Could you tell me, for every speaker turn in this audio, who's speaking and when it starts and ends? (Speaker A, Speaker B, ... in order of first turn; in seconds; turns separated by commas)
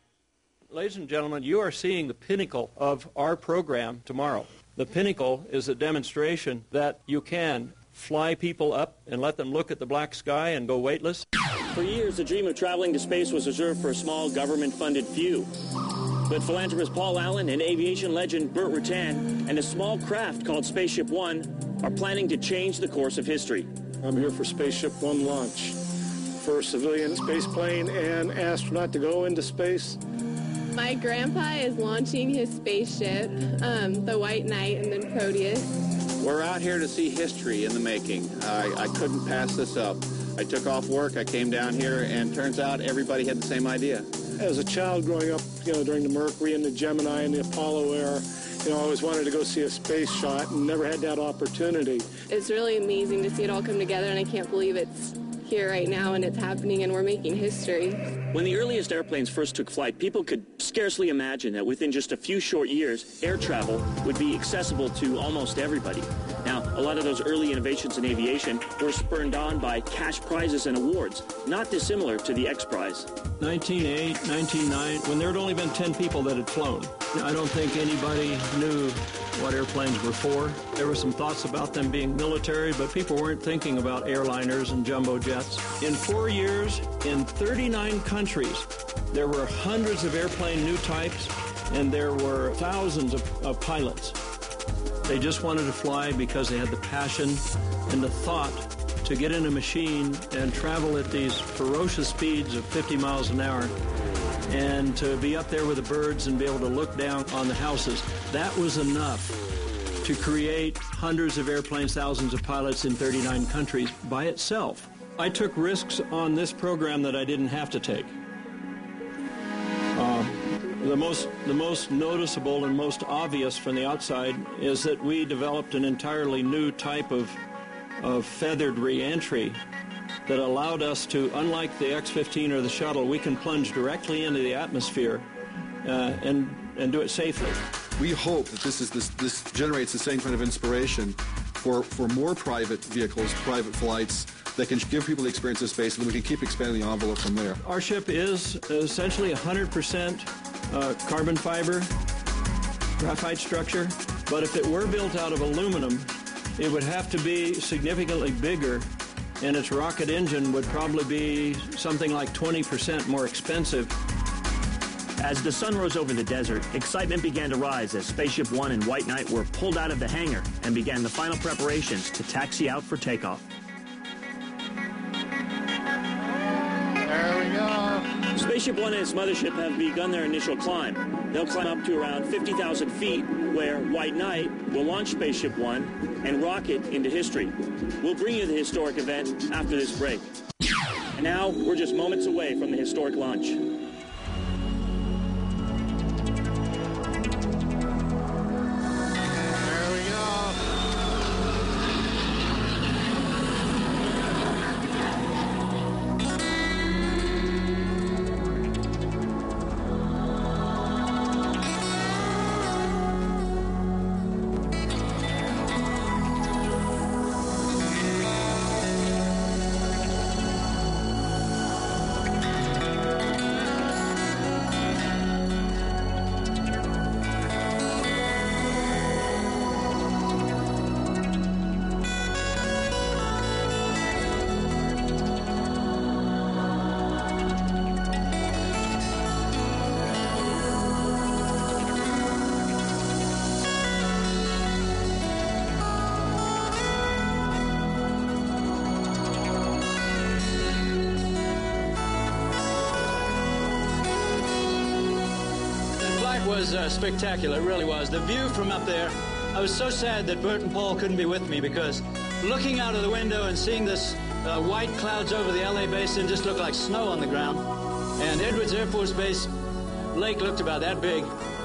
Speaker A: 0.7-11.2, Speaker B: 11.7-23.7, Speaker C: 24.0-25.8, Speaker C: 26.4-30.0, Speaker D: 30.7-35.7, Speaker E: 36.2-44.1, Speaker C: 44.4-52.1, Speaker D: 52.3-58.0, Speaker B: 58.3-73.1, Speaker A: 73.4-94.2, Speaker A: 95.0-103.7, Speaker A: 104.5-109.4, Speaker A: 110.0-118.2, Speaker A: 119.9-127.4, Speaker A: 128.0-129.6, Speaker A: 130.2-135.2, Speaker A: 135.8-137.6, Speaker F: 138.0-147.6, Speaker A: 147.6-151.9, Speaker A: 153.0-158.9, Speaker A: 159.4-163.9, Speaker B: 165.2-173.4, Speaker B: 178.3-190.3, Speaker B: 191.2-193.8, Speaker G: 256.0-267.6, Speaker G: 268.2-269.5, Speaker G: 270.1-271.3